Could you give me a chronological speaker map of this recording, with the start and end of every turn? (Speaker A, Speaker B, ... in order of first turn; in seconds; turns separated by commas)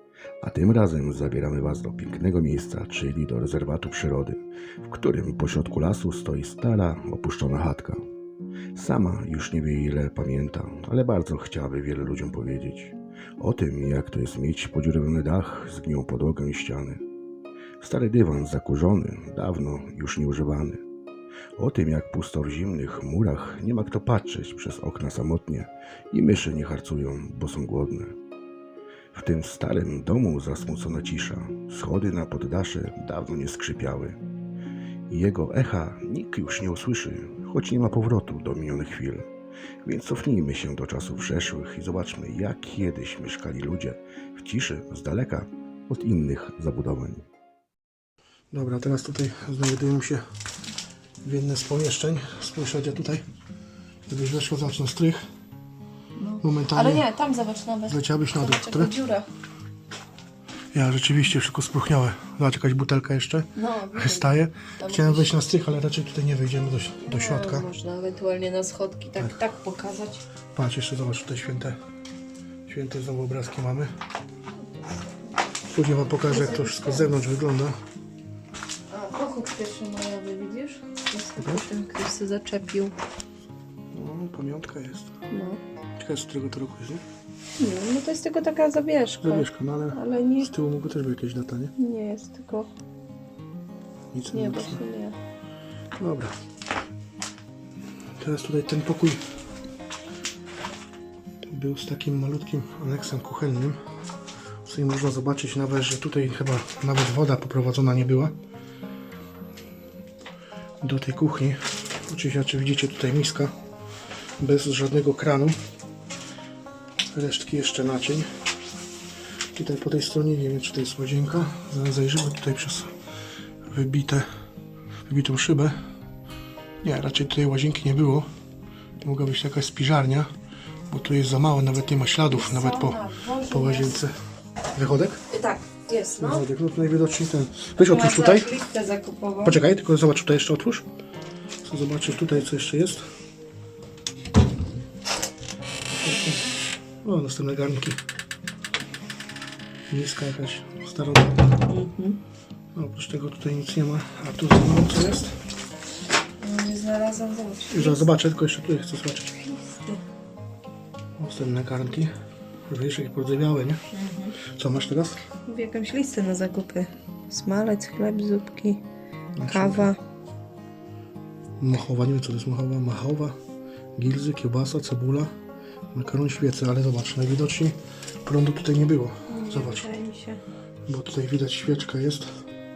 Speaker A: 0.4-8.0, Speaker A: 8.8-17.0, Speaker A: 17.8-20.8, Speaker A: 21.6-28.1, Speaker A: 29.1-34.2, Speaker A: 35.1-39.3, Speaker A: 39.8-47.2, Speaker B: 48.5-50.2, Speaker B: 51.2-53.2, Speaker B: 54.1-55.2, Speaker C: 56.2-59.3, Speaker B: 56.4-57.1, Speaker B: 57.9-58.9, Speaker B: 60.7-67.7, Speaker C: 63.5-65.4, Speaker C: 67.0-70.2, Speaker B: 70.5-71.8, Speaker B: 72.7-73.9, Speaker C: 74.8-77.2, Speaker B: 75.7-77.8, Speaker C: 78.9-83.0, Speaker B: 81.4-81.7, Speaker B: 83.9-85.1, Speaker C: 85.3-85.6, Speaker B: 86.0-87.0, Speaker C: 87.6-90.5, Speaker B: 89.2-91.7, Speaker C: 91.8-92.7, Speaker B: 94.1-94.8, Speaker C: 94.3-95.2, Speaker B: 96.0-96.3, Speaker B: 98.2-99.2, Speaker B: 101.5-103.8, Speaker B: 104.7-108.3, Speaker B: 110.8-113.5, Speaker B: 114.4-115.6, Speaker B: 117.1-118.3, Speaker B: 119.5-122.9, Speaker B: 123.7-124.3, Speaker B: 125.1-125.8, Speaker B: 126.8-128.3, Speaker B: 129.0-130.3, Speaker B: 130.9-134.1, Speaker C: 132.3-134.0, Speaker B: 134.7-135.2, Speaker C: 135.3-136.4, Speaker B: 136.2-138.5, Speaker C: 137.8-139.6, Speaker B: 139.4-140.8, Speaker B: 141.6-143.1, Speaker B: 146.0-146.5, Speaker B: 147.0-148.0, Speaker B: 149.9-151.6, Speaker C: 151.7-152.2, Speaker B: 152.7-155.3, Speaker C: 156.4-158.1, Speaker B: 157.7-159.4, Speaker C: 159.4-160.0, Speaker B: 161.2-162.1, Speaker B: 162.7-163.8, Speaker C: 163.9-164.4, Speaker B: 164.5-165.2, Speaker C: 165.4-168.8, Speaker B: 169.4-170.0, Speaker C: 169.5-170.0, Speaker B: 171.6-173.4, Speaker B: 174.0-175.3, Speaker B: 175.9-179.9, Speaker C: 179.3-180.4, Speaker B: 180.9-182.3